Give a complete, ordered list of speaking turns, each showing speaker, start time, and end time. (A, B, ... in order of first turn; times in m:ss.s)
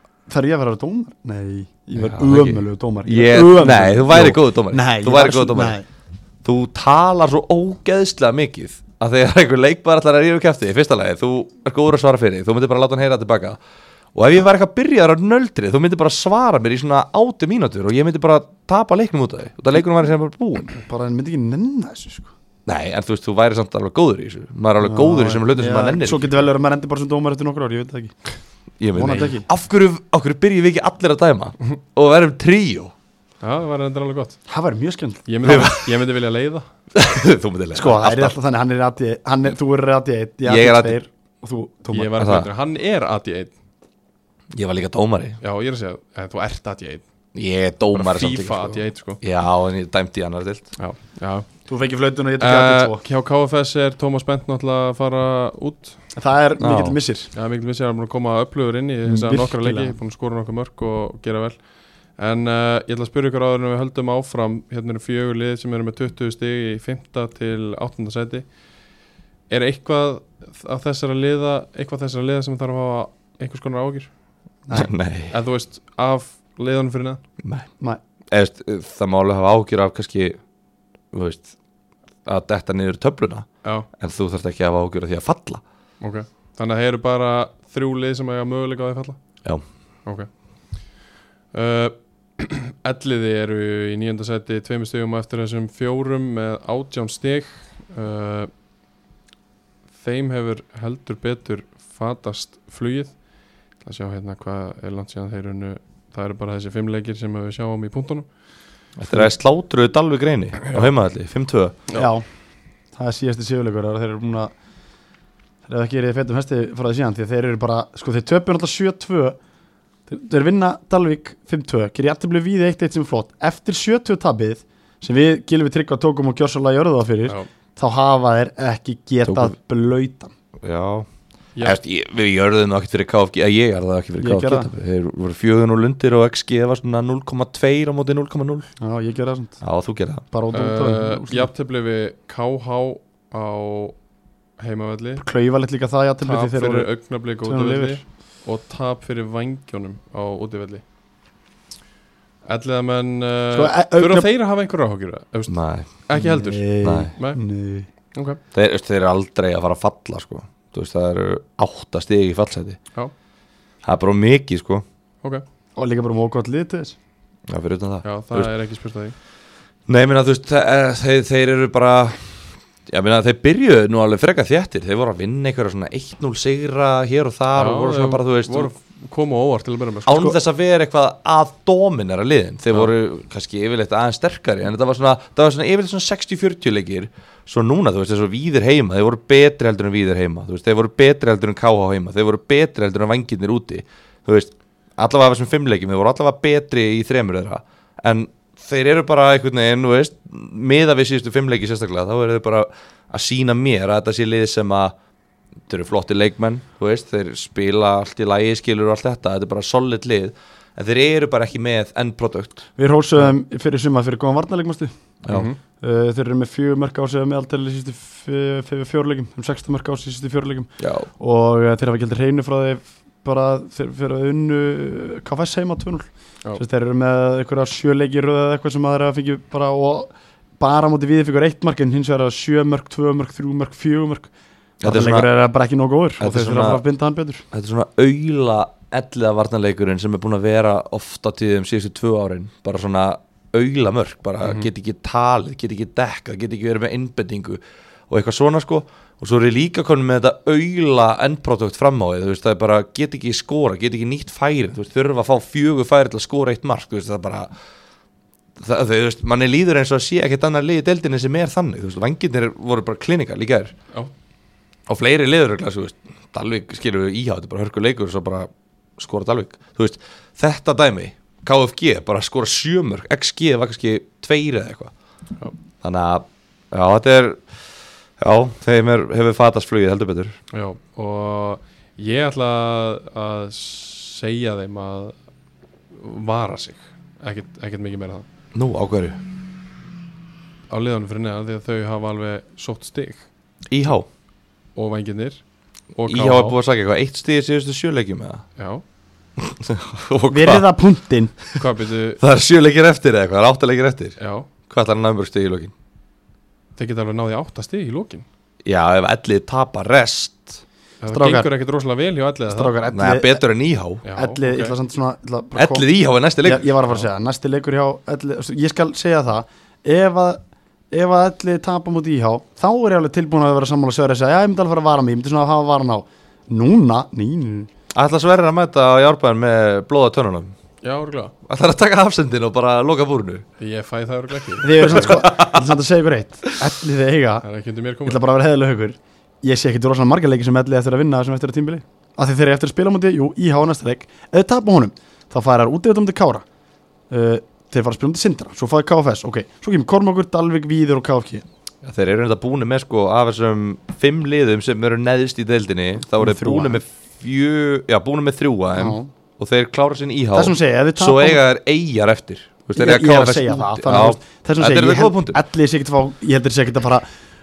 0:00.3-0:05.8 A
0:02.0-0:05.8 B
0:06.4-0:13.6 B
0:14.1-0:20.7 B
0:20.8-0:22.3 A
0:22.6-0:26.3 B
0:24.8-0:28.1 A
0:28.8-0:32.9 B
0:28.9-0:29.5 A
0:33.4-0:34.4 C
0:34.5-0:35.6 A
0:35.3-0:36.7 C
0:35.4-0:35.8 B
0:36.9-0:38.3 B
0:37.7-0:42.2 A
0:40.4-0:41.0 B
0:41.9-0:43.5 C
0:42.2-0:42.5 B
0:44.5-0:45.4 B
0:45.4-0:47.0 C
0:47.3-0:50.7 B
0:47.9-0:49.2 C
0:50.8-0:51.5 C
0:51.7-0:53.0 A
0:52.4-0:56.0 C
0:56.1-0:57.3 A
0:56.6-0:57.0 B
0:57.3-1:08.5 C
0:59.0-1:00.0 A
1:09.5-1:14.1 C
1:14.7-1:15.3 B
1:15.3-1:17.2 C
1:17.4-1:17.7 B
1:18.3-1:20.4 B
1:21.1-1:21.5 B
1:22.2-1:25.6 B
1:26.0-1:29.2 C
1:31.5-1:38.5 C
1:40.0-1:43.2 C
1:43.8-1:48.3 C
1:49.0-1:51.8 B
1:51.9-1:52.2 A
1:52.9-1:54.5 A
1:55.7-1:59.4 A
2:00.1-2:10.3 A
2:09.2-2:09.5 B
2:10.6-2:11.1 B
2:11.6-2:18.7 B
2:14.2-2:14.7 A
2:18.8-2:19.6 A
2:19.6-2:20.2 B
2:20.3-2:21.5 A
2:20.5-2:24.0 C
2:24.6-2:25.2 C
2:25.2-2:28.0 A
2:26.2-2:30.8 C
2:32.4-2:37.4 C
2:33.5-2:34.3 A
2:35.5-2:35.9 B
2:36.2-2:37.9 A
2:36.8-2:37.1 B
2:38.1-2:38.4 C
2:38.5-2:42.8 B
2:43.8-2:44.8 B
2:45.8-2:47.0 A
2:47.5-2:48.5 B
2:48.0-2:49.1 C
2:49.9-2:58.7 B
2:57.5-3:00.3 C
3:00.0-3:24.9 B
3:25.7-3:32.6 B
3:32.8-3:34.9 A
3:35.2-3:35.5 B
3:35.3-3:35.6 C
3:35.8-3:54.3 A
3:40.8-3:41.1 B
3:54.8-3:55.3 B
3:54.8-3:57.4 A
3:56.2-3:56.8 B
3:57.5-4:17.5 B
4:18.6-4:23.7 B
4:24.9-4:34.9 B
4:35.8-4:37.4 B
4:38.2-4:40.4 B
4:40.5-4:45.1 C
4:45.9-4:48.2 C
4:48.5-4:49.2 B
4:50.7-4:53.3 C
4:53.7-4:54.1 B
4:54.7-4:55.4 C
4:55.9-4:56.6 C
4:56.1-4:58.4 B
4:58.6-4:58.8 C
4:59.4-5:00.6 B
5:00.3-5:01.4 A
5:01.5-5:02.2 C
5:02.2-5:05.7 B
5:04.2-5:04.5 C
5:06.8-5:08.2 C
5:08.6-5:10.6 B
5:11.0-5:12.7 C
5:11.1-5:11.5 A
5:12.5-5:13.4 A
5:12.9-5:14.0 B
5:14.0-5:14.7 C
5:14.1-5:15.9 A
5:15.5-5:16.7 B
5:16.4-5:20.4 A
5:20.9-5:27.7 A
5:27.9-5:30.5 B
5:30.8-5:31.3 C
5:31.4-5:33.4 B
5:33.6-5:35.1 C
5:34.6-5:37.4 A
5:34.8-5:35.6 B
5:37.4-5:38.2 C
5:38.0-5:46.4 A
5:47.1-5:51.4 A
5:51.8-6:05.4 B
5:56.2-5:56.8 A
5:58.7-5:59.1 A
6:00.3-6:01.4 A
6:02.7-6:07.0 A